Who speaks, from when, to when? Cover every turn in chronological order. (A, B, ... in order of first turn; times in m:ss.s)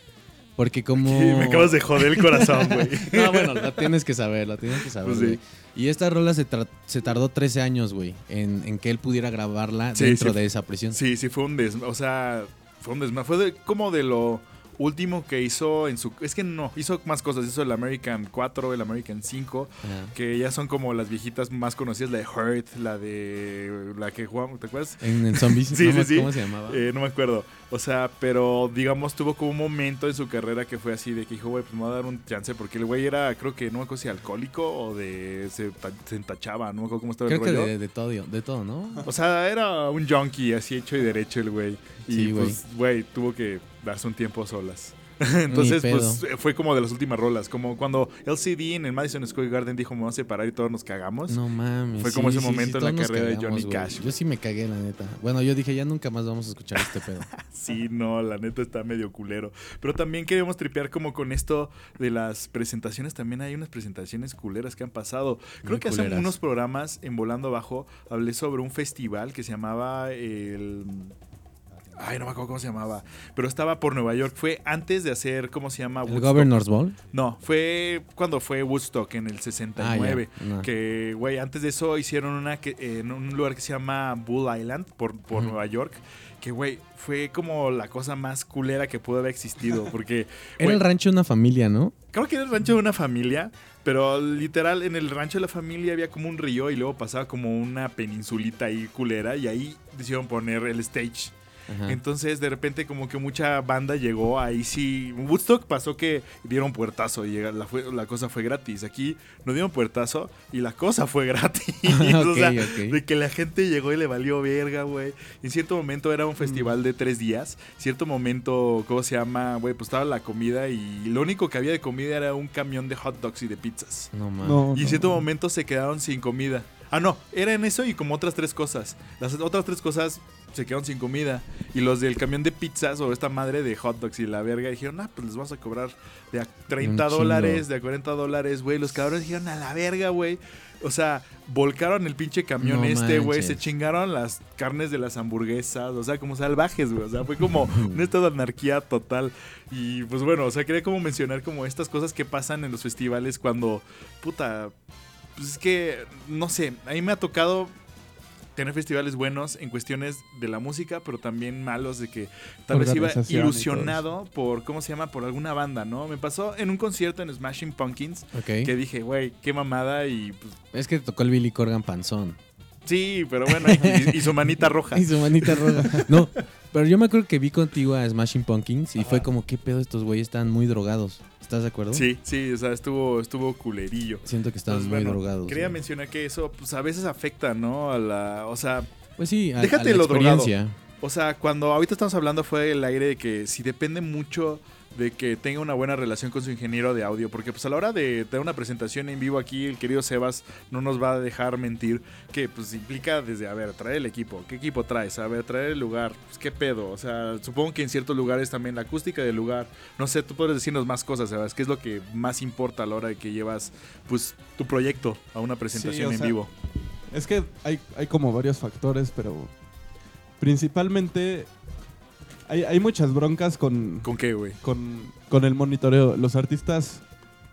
0:00.6-0:11.0 A
0:01.0-0:03.9 B
0:05.0-0:05.4 B
0:09.9-0:10.4 B
0:10.9-0:37.7 B
0:19.8-0:20.1 A
0:25.0-0:26.9 A
0:37.2-0:39.1 A
0:39.0-0:51.4 B
0:42.1-0:42.6 A
0:45.5-0:46.2 A
0:51.3-0:57.3 A
0:52.0-0:54.1 B
0:57.4-1:11.1 B
1:05.6-1:06.3 A
1:11.9-1:16.6 B
1:16.0-1:17.0 A
1:17.1-1:30.8 B
1:19.8-1:20.7 A
1:30.6-1:31.9 A
1:32.1-1:41.3 B
1:41.7-1:42.0 A
1:41.8-2:04.1 B
1:51.9-1:53.0 A
1:56.4-1:56.7 C
2:04.1-2:04.7 A
2:04.4-2:05.2 C
2:04.7-2:34.7 B
2:16.8-2:17.6 A
2:22.6-2:23.6 A
2:27.7-2:28.0 A
2:35.4-2:37.7 B
2:38.6-2:50.6 B
2:42.7-2:44.0 C
2:48.3-2:48.7 A
2:50.7-2:52.4 A
2:52.8-2:56.2 B
2:53.5-3:02.1 A
2:59.0-2:59.2 B
3:01.9-3:08.9 B
3:04.2-3:05.8 A
3:09.2-3:10.8 A
3:09.6-3:36.5 B
3:35.7-3:36.4 C
3:37.1-3:39.5 C
3:40.4-3:41.5 C
3:42.5-3:47.0 C
3:44.0-3:44.6 B